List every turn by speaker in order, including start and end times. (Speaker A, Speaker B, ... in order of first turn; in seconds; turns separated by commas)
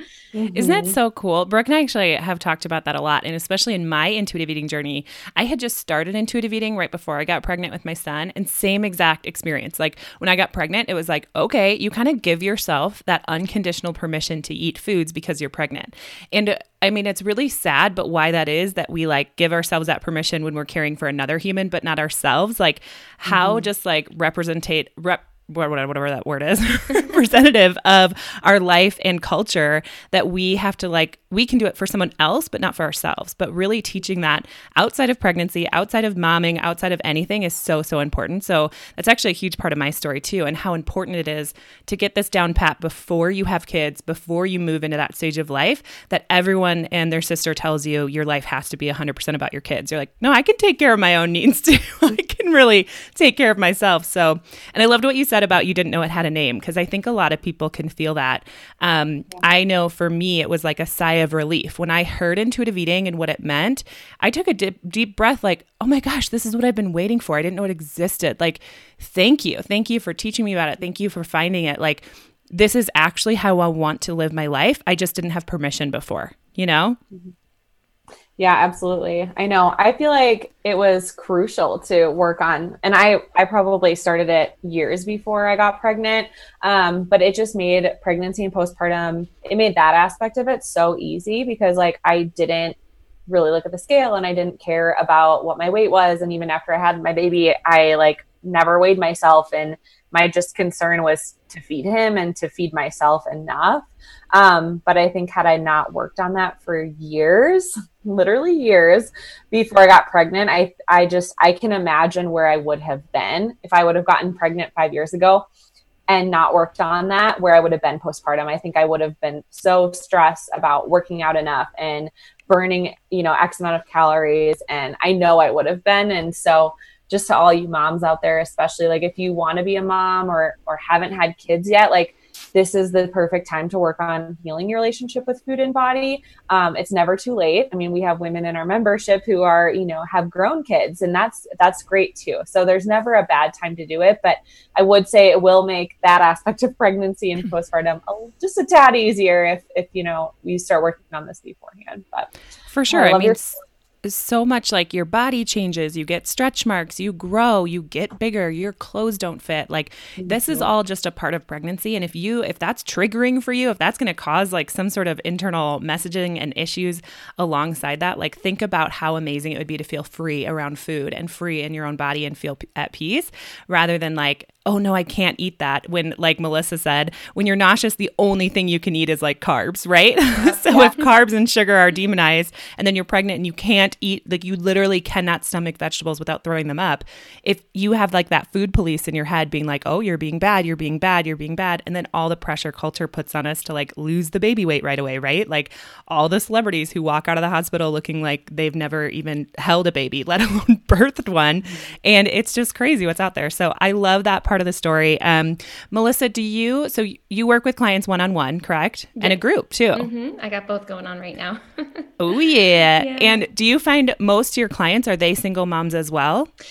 Speaker A: 0.3-1.0, Speaker B: 0.5-77.0, Speaker A: 23.3-23.7, Speaker A: 78.4-92.8, Speaker A: 93.3-115.5, Speaker A: 116.1-152.3, Speaker B: 152.7-153.5, Speaker A: 152.9-153.4, Speaker B: 154.0-210.1, Speaker A: 160.2-160.7, Speaker C: 180.4-181.0, Speaker C: 209.9-212.1, Speaker B: 212.2-216.5, Speaker C: 212.9-213.4